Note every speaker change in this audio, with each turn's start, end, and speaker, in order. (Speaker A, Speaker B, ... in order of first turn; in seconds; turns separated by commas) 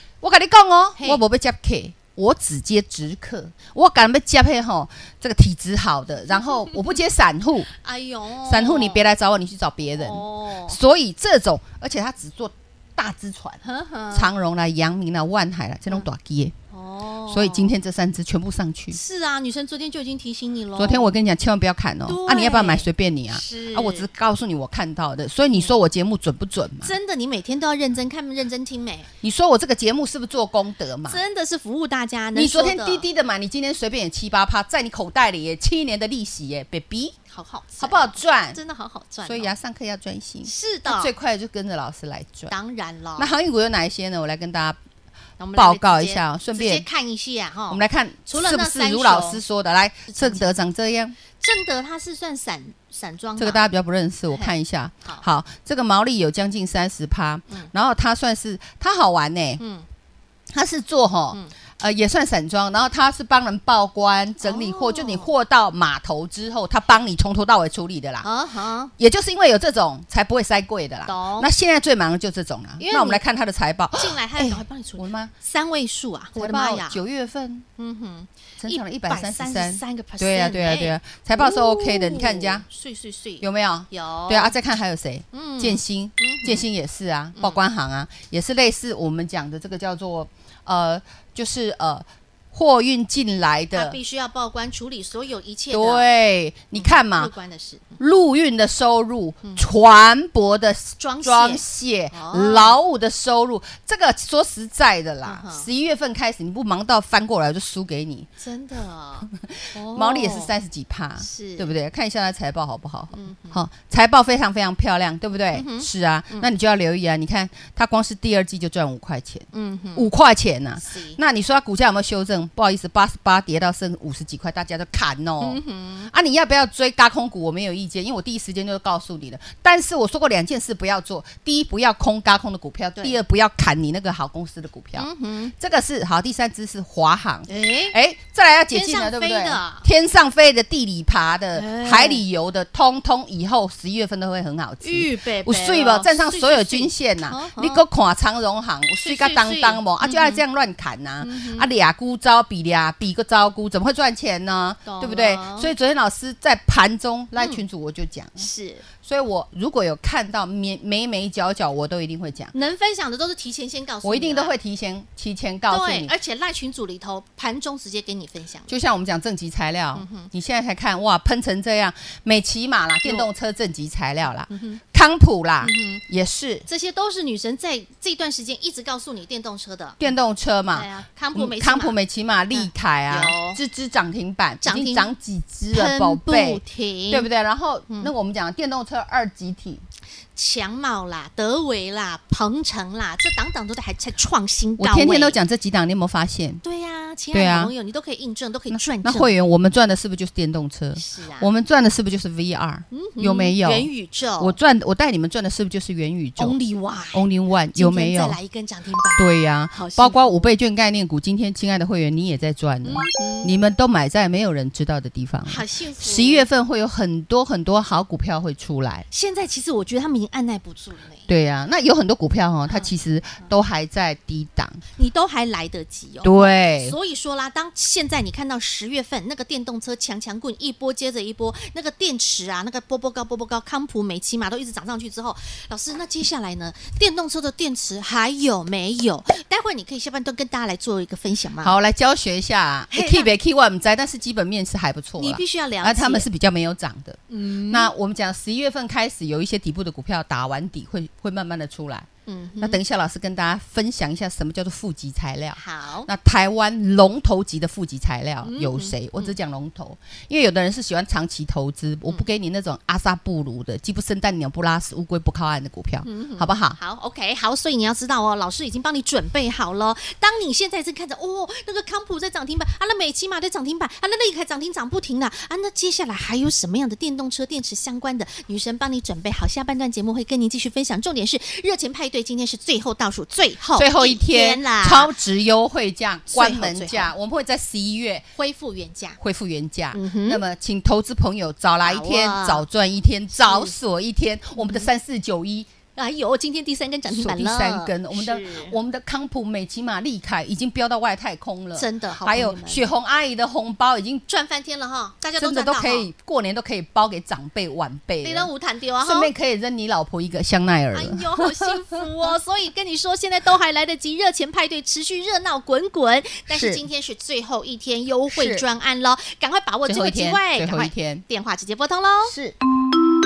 Speaker A: 0.2-7.7, Speaker B: 1.0-1.2, Speaker B: 7.8-9.1, Speaker A: 8.4-16.5, Speaker B: 9.9-10.8, Speaker B: 13.6-14.3, Speaker B: 16.7-17.7, Speaker A: 17.3-19.0, Speaker B: 18.9-21.1, Speaker A: 20.8-26.9, Speaker B: 22.1-24.1, Speaker B: 26.8-29.1, Speaker A: 29.2-31.2, Speaker B: 31.1-33.1, Speaker A: 32.3-37.2, Speaker B: 37.3-39.5, Speaker A: 37.8-38.6, Speaker A: 39.2-42.5, Speaker B: 40.5-41.1, Speaker B: 42.5-43.3, Speaker A: 43.2-44.8, Speaker B: 45.4-49.4, Speaker A: 45.5-46.9, Speaker A: 47.7-51.2, Speaker B: 50.1-50.5, Speaker B: 51.4-53.6, Speaker A: 53.4-59.6, Speaker B: 59.6-59.9, Speaker A: 60.5-68.3, Speaker B: 64.4-65.3, Speaker B: 68.2-68.9, Speaker A: 69.0-75.3, Speaker B: 71.1-71.5, Speaker B: 72.8-73.2, Speaker B: 74.0-77.0, Speaker A: 76.4-77.7, Speaker B: 77.8-84.6, Speaker A: 78.6-82.7, Speaker A: 83.4-94.0, Speaker B: 85.3-86.7, Speaker B: 87.4-87.6, Speaker B: 93.7-96.1, Speaker A: 95.7-97.3, Speaker B: 96.8-98.0, Speaker A: 98.0-108.3, Speaker B: 101.0-102.8, Speaker B: 105.2-105.7, Speaker B: 108.4-110.5, Speaker A: 109.2-158.5, Speaker B: 111.2-111.7, Speaker B: 113.1-113.6, Speaker B: 115.5-116.5, Speaker B: 119.5-120.1, Speaker B: 120.8-121.2, Speaker B: 125.4-126.1, Speaker B: 135.0-135.5, Speaker B: 137.5-138.0, Speaker B: 138.7-139.9, Speaker B: 141.5-142.2, Speaker B: 144.8-147.8, Speaker B: 149.0-150.4, Speaker B: 151.2-151.7, Speaker B: 154.8-155.7, Speaker B: 158.4-158.9, Speaker A: 159.0-162.5, Speaker B: 162.5-164.5, Speaker A: 164.0-166.1, Speaker B: 165.7-168.7, Speaker A: 168.7-176.7, Speaker B: 169.9-170.3, Speaker B: 173.0-173.3, Speaker B: 174.5-174.8, Speaker B: 175.6-176.0, Speaker B: 176.7-180.0, Speaker A: 180.0-189.8, Speaker B: 180.7-182.0, Speaker B: 182.5-183.6, Speaker B: 184.6-185.1, Speaker B: 185.7-187.3, Speaker B: 190.3-195.4, Speaker A: 194.8-196.6, Speaker B: 196.6-199.3, Speaker A: 197.3-197.7, Speaker A: 198.7-206.6, Speaker B: 201.0-201.5, Speaker B: 202.9-204.6, Speaker B: 206.4-210.5, Speaker A: 207.1-208.4, Speaker A: 209.2-219.1, Speaker B: 212.8-213.5, Speaker B: 215.5-216.5, Speaker B: 219.1-221.3, Speaker A: 221.3-224.8, Speaker B: 225.0-241.8, Speaker A: 226.2-227.0, Speaker A: 241.6-252.1, Speaker B: 242.9-243.3, Speaker B: 245.2-246.3, Speaker B: 247.3-247.9, Speaker B: 252.3-252.8, Speaker A: 252.6-266.8, Speaker B: 255.6-256.1, Speaker B: 258.4-259.3, Speaker B: 266.1-285.1, Speaker A: 283.8-288.3, Speaker B: 286.3-287.1, Speaker B: 288.4-289.2, Speaker A: 289.2-295.7, Speaker B: 289.9-290.4, Speaker B: 291.8-292.7, Speaker B: 293.3-293.7, Speaker B: 294.6-294.9, Speaker B: 296.0-298.8, Speaker A: 297.1-304.3, Speaker B: 301.8-302.9, Speaker B: 304.3-306.1, Speaker A: 305.4-308.5, Speaker B: 308.2-309.3, Speaker A: 309.0-311.9, Speaker B: 310.9-322.4, Speaker A: 316.5-316.9, Speaker A: 318.3-318.6, Speaker A: 319.9-321.2, Speaker A: 322.2-322.6